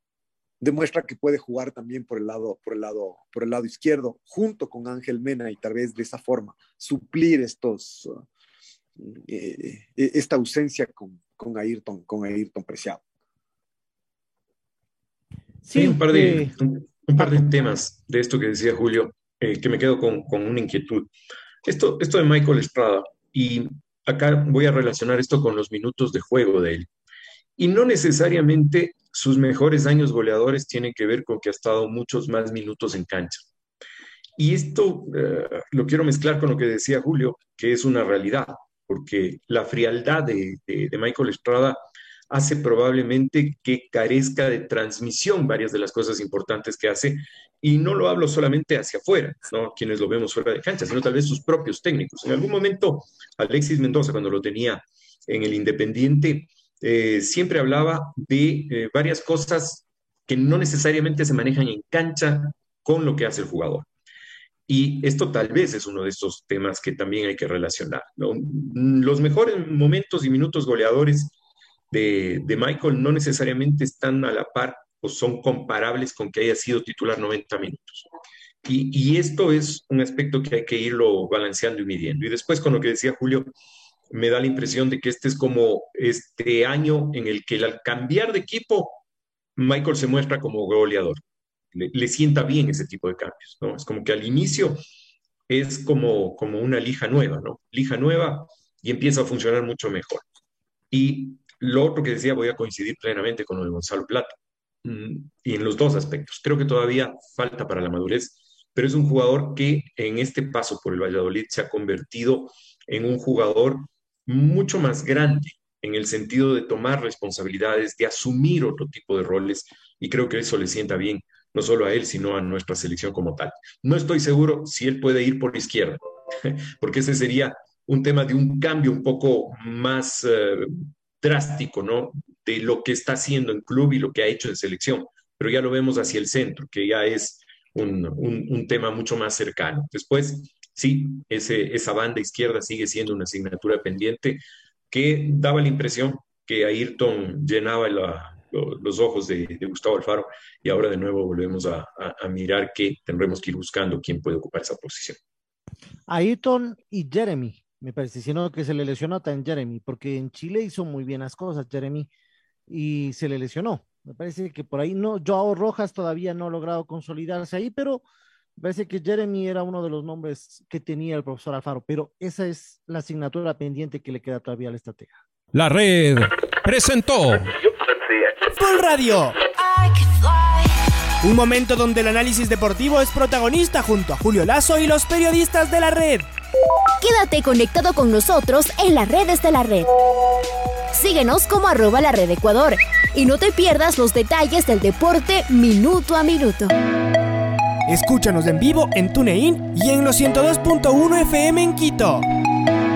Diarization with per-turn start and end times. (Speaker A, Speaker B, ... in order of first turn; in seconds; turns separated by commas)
Speaker A: 0.6-8.2, Speaker A: 9.0-13.0, Speaker B: 15.6-16.5, Speaker C: 15.7-21.1, Speaker C: 21.6-26.9, Speaker C: 27.6-33.5, Speaker C: 34.4-41.8, Speaker C: 42.3-63.9, Speaker C: 64.7-71.3, Speaker C: 71.9-78.0, Speaker C: 78.6-83.5, Speaker C: 84.1-89.0, Speaker C: 89.6-91.2, Speaker C: 91.7-94.8, Speaker C: 95.5-100.2, Speaker C: 100.9-155.2, Speaker B: 156.1-162.1, Speaker B: 162.7-168.0, Speaker B: 168.6-175.1, Speaker D: 175.5-177.5, Speaker E: 178.5-179.4, Speaker E: 181.2-186.3, Speaker F: 187.0-189.9, Speaker F: 190.9-196.7, Speaker E: 197.9-202.2